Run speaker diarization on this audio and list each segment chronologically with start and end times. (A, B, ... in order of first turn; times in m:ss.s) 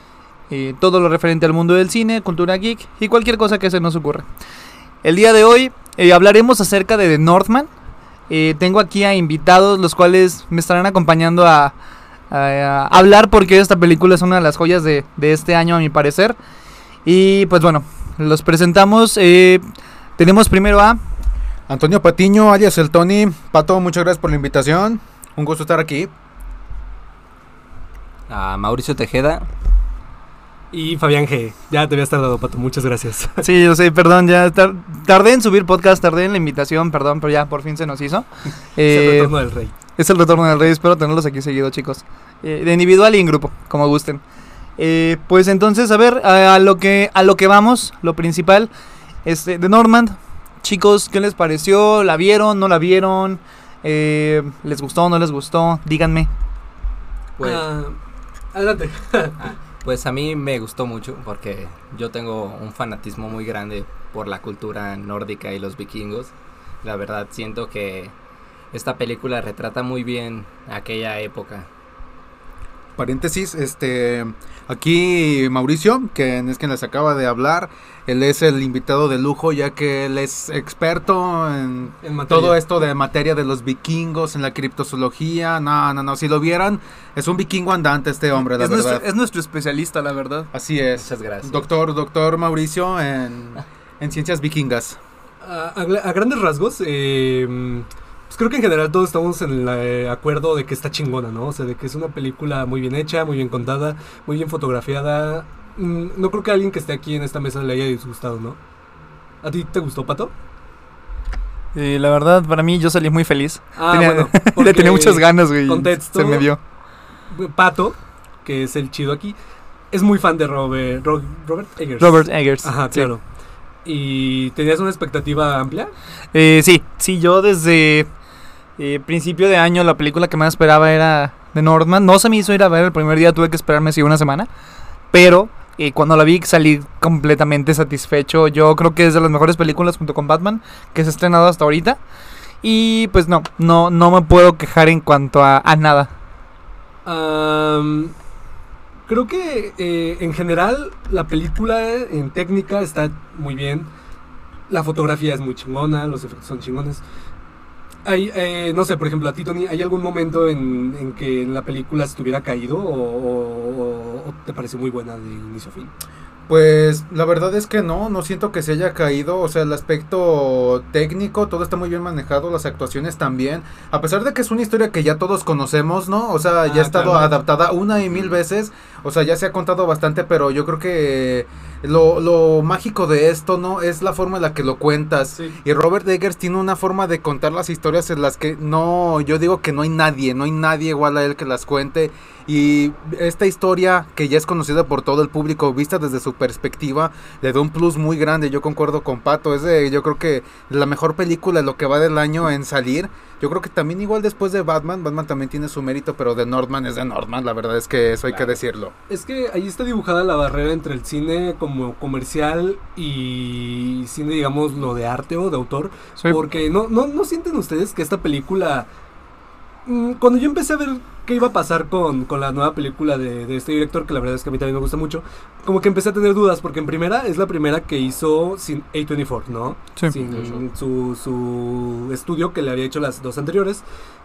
0:00.5-0:04.3 A
0:05.0-0:07.7 A
0:08.3-0:11.8 A
0:12.3-0:16.4 A
0:17.0-0:19.6 A
0:20.2-0:21.0 A
0:21.7-0:26.1 B
0:28.3-0:29.5 C
0:30.7-0:33.5 D
0:33.4-0:39.3 A
0:38.8-0:39.7 D
0:40.0-0:44.2 A
0:44.8-0:48.7 A
0:49.2-0:56.3 A
0:57.4-0:57.6 C
0:57.4-0:58.0 D
0:58.5-0:59.4 D
0:59.4-1:06.3 C
1:06.8-1:08.1 C
1:08.7-1:11.7 C
1:13.0-1:29.0 B
1:22.0-1:22.6 D
1:28.4-1:30.5 A
1:30.5-1:35.0 B
1:31.0-1:31.7 C
1:35.4-1:48.6 D
1:49.4-1:50.3 D
1:51.8-1:56.6 A
1:53.8-1:56.5 D
1:57.3-1:59.4 D
1:59.9-2:03.2 D
2:02.0-2:03.1 A
2:03.8-2:05.9 D
2:06.3-2:08.1 A
2:08.8-2:14.5 A
2:15.1-2:22.0 A
2:22.6-2:26.1 A
2:27.0-2:28.2 D
2:29.1-2:33.9 D
2:34.7-2:37.0 D
2:38.0-2:45.9 D
2:46.5-3:28.9 B
2:56.6-2:57.4 D
2:58.1-2:58.4 C
3:28.3-3:28.6 C
3:29.1-3:38.9 D
3:39.9-3:53.8 D
3:50.2-3:50.6 B